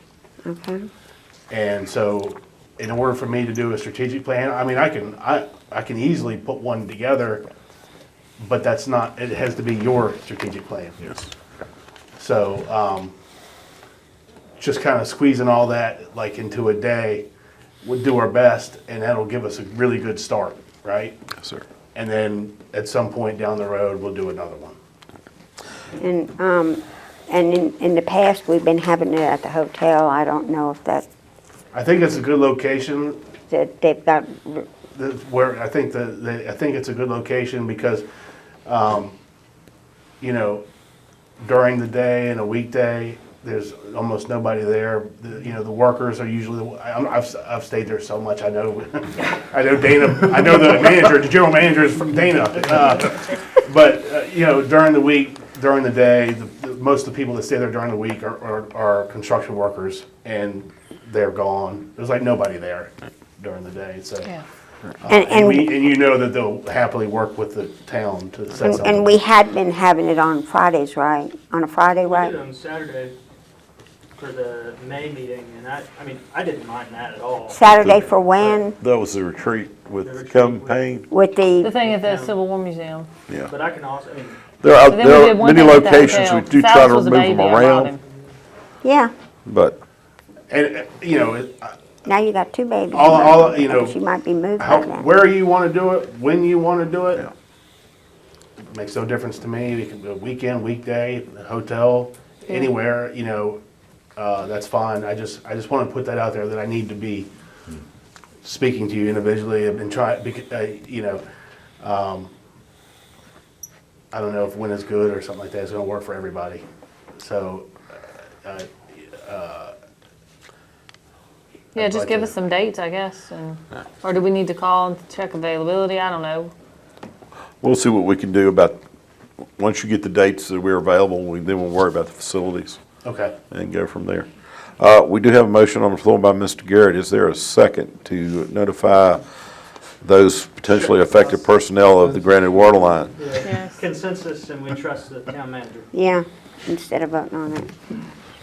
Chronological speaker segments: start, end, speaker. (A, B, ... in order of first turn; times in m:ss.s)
0:00.4-0:00.8 A
0:01.5-0:07.4 B
0:08.4-0:11.2 B
0:12.2-0:13.1 B
0:14.6-0:17.3 B
0:17.8-0:21.2 B
0:21.9-0:24.8 B
0:26.0-0:31.0 A
0:31.7-0:33.2 B
0:33.5-0:34.7 A
0:34.9-0:38.0 B
0:38.6-0:39.2 B
0:40.2-0:40.6 B
0:41.4-1:04.3 B
1:05.0-1:09.2 B
1:05.0-1:05.7 A
1:08.6-1:12.3 A
1:12.0-1:13.1 C
1:14.2-1:17.7 C
1:17.5-1:18.8 A
1:17.8-1:18.1 D
1:18.8-1:21.0 D
1:20.0-1:20.8 C
1:21.1-1:21.7 A
1:21.6-1:23.1 E
1:21.8-1:22.3 C
1:23.4-1:24.4 C
1:24.6-1:27.9 D
1:24.9-1:28.0 E
1:25.7-1:26.2 C
1:28.8-1:29.1 A
1:29.4-1:29.8 D
1:30.5-1:31.8 B
1:32.0-1:35.1 A
1:32.9-1:34.0 B
1:34.6-1:37.3 B
1:38.7-1:43.6 B
1:44.2-1:47.3 B
1:48.4-1:51.2 B
1:51.8-1:52.3 B
1:54.1-1:56.6 B
1:57.2-1:57.7 B
1:58.4-1:59.7 B
2:01.7-2:02.3 B
2:01.7-2:06.5 E
2:07.6-2:08.8 D
2:09.6-2:12.8 D
2:13.0-2:13.3 B
2:13.5-2:19.2 D
2:20.0-2:23.1 D
2:20.7-2:21.4 C
2:23.1-2:25.9 C
2:23.4-2:23.8 E
2:25.9-2:28.0 A